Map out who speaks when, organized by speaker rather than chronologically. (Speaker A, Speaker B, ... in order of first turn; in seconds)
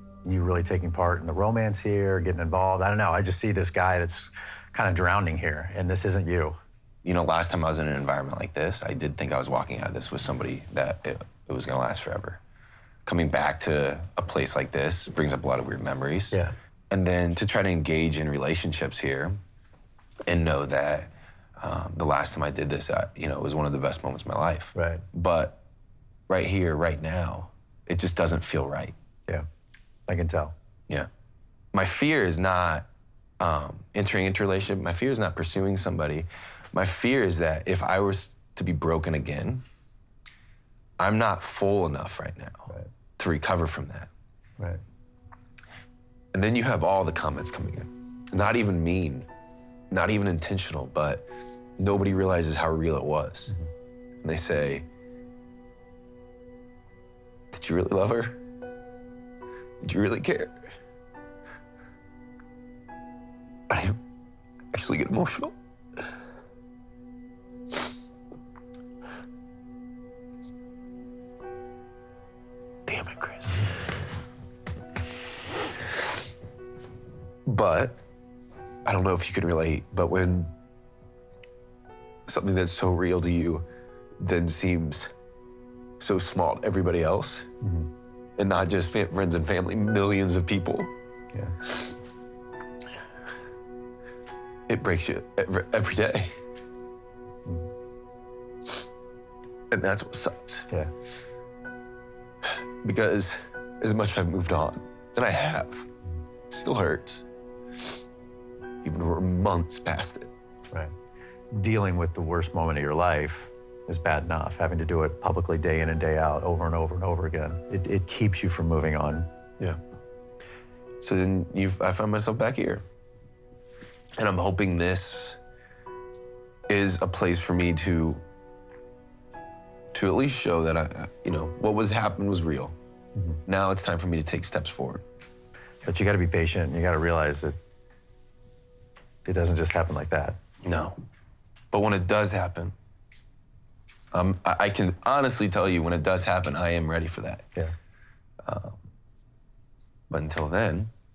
Speaker A: 0.2-6.6, 24.8-25.0, 30.1-30.5, 87.6-87.9, 111.5-119.3, 135.8-137.6, 139.2-140.4
Speaker B: 7.0-12.4, 13.1-16.4, 16.9-19.4, 20.3-25.6, 26.3-28.9, 31.7-32.9, 33.4-39.6, 41.0-44.1, 46.3-49.3, 49.9-51.3, 51.8-53.5, 54.2-54.9, 57.5-58.4, 59.8-60.6, 63.7-64.0, 64.7-65.5, 72.9-73.8, 77.5-78.0, 78.9-80.5, 82.3-83.7, 84.2-85.1, 86.0-87.5, 88.4-90.9, 94.7-96.3, 99.7-100.7, 102.5-105.9, 106.5-107.2, 108.8-110.3, 121.0-122.8, 124.2-125.4, 126.7-128.2, 129.9-132.7, 133.5-135.0, 140.6-141.0, 141.7-142.8, 144.1-147.5, 148.4-148.8, 150.1-150.9